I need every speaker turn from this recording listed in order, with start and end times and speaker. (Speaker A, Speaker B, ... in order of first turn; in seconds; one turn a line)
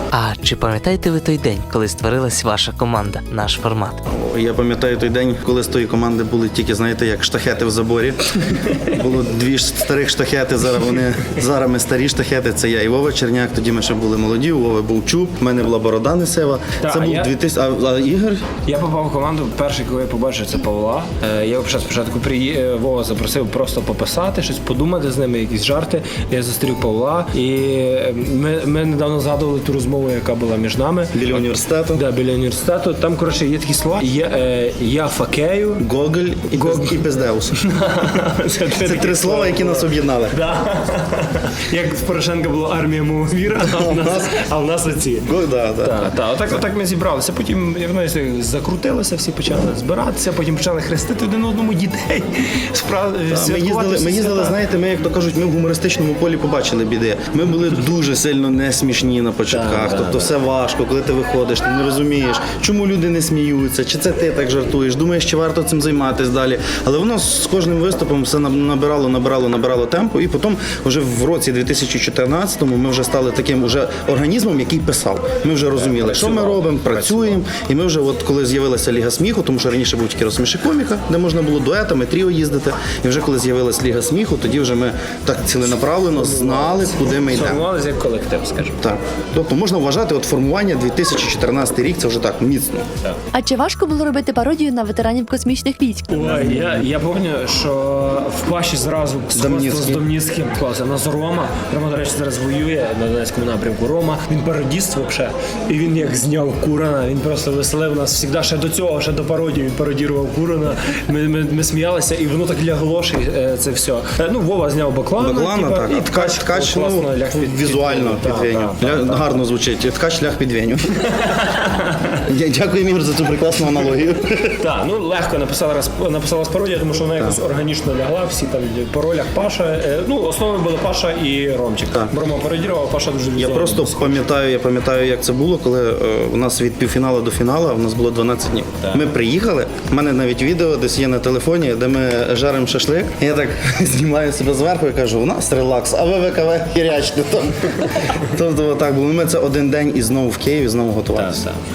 Speaker A: 0.1-4.0
Speaker B: 4.1-18.5
Speaker C: 16.8-17.3
Speaker C: 18.6-35.9
Speaker B: 31.1-32.0
Speaker B: 35.8-37.6
Speaker C: 36.5-45.3
Speaker B: 38.8-40.4
Speaker B: 43.7-44.4
Speaker B: 45.2-46.1
Speaker C: 45.8-54.6
Speaker B: 53.3-87.6
Speaker C: 59.5-60.3
Speaker C: 75.8-77.3
Speaker C: 86.2-88.7
Speaker B: 88.8-92.8
Speaker D: 93.3-96.1
Speaker C: 96.1-119.3
Speaker B: 96.2-96.8
Speaker B: 99.3-100.0
Speaker B: 115.2-121.1
Speaker C: 121.2-122.2
Speaker B: 122.2-124.6
Speaker C: 124.6-134.3
Speaker B: 133.3-151.4
Speaker C: 151.2-151.6